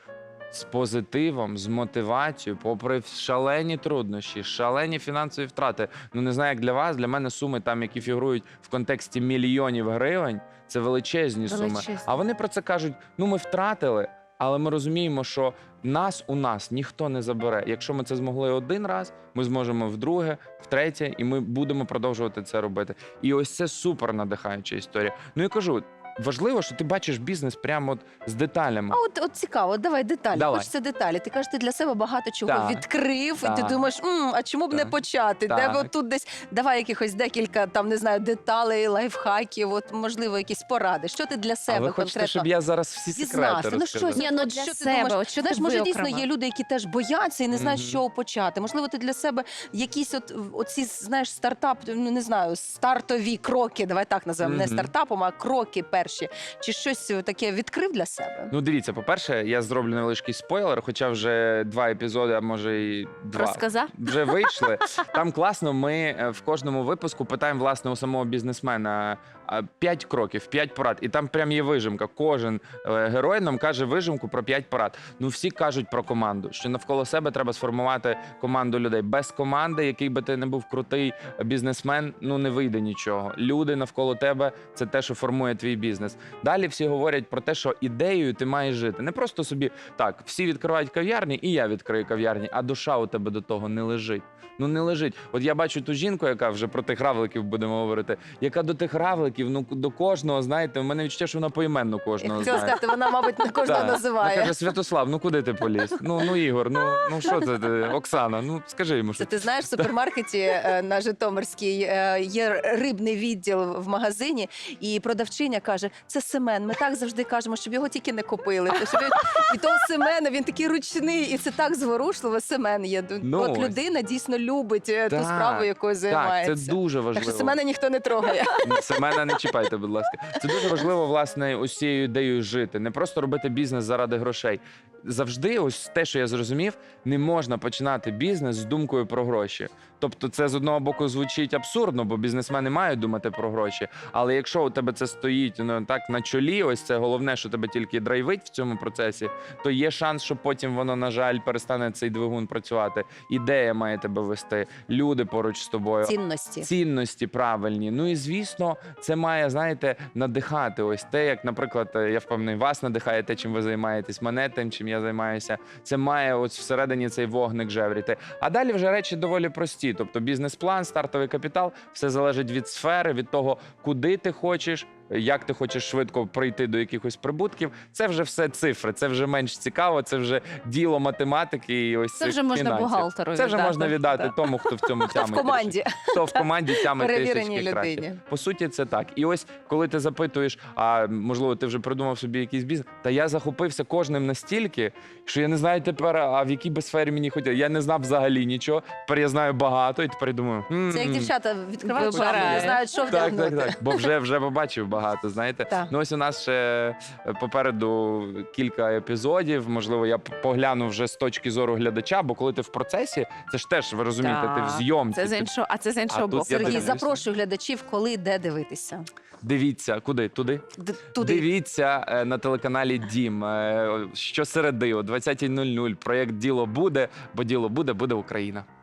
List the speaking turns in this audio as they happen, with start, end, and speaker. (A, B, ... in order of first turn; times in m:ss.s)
0:00.5-0:29.0 A
0:11.5-0:12.1 B
0:28.9-0:42.5 C
0:30.3-0:30.7 A
0:32.5-0:32.8 A
0:33.4-0:33.9 A
0:35.5-0:35.9 A
0:41.7-0:44.3 A
0:43.1-0:58.5 C
0:44.1-0:46.3 B
0:47.5-0:48.0 A
0:54.4-0:54.9 A
0:58.5-1:42.8 A
1:03.3-1:04.1 B
1:42.2-1:44.6 C
1:43.6-1:49.9 A
1:49.2-2:09.4 C
2:03.2-2:03.8 A
2:05.1-2:07.6 A
2:08.6-3:21.3 A
2:36.0-2:36.7 C
3:02.2-3:04.4 B
3:05.0-3:08.2 C
3:20.9-3:23.8 C
3:21.8-3:22.8 B
3:22.0-3:35.5 A
3:34.2-3:37.0 B
3:36.1-3:37.2 A
3:36.5-3:39.1 C
3:39.4-3:48.7 A
3:40.8-3:41.5 C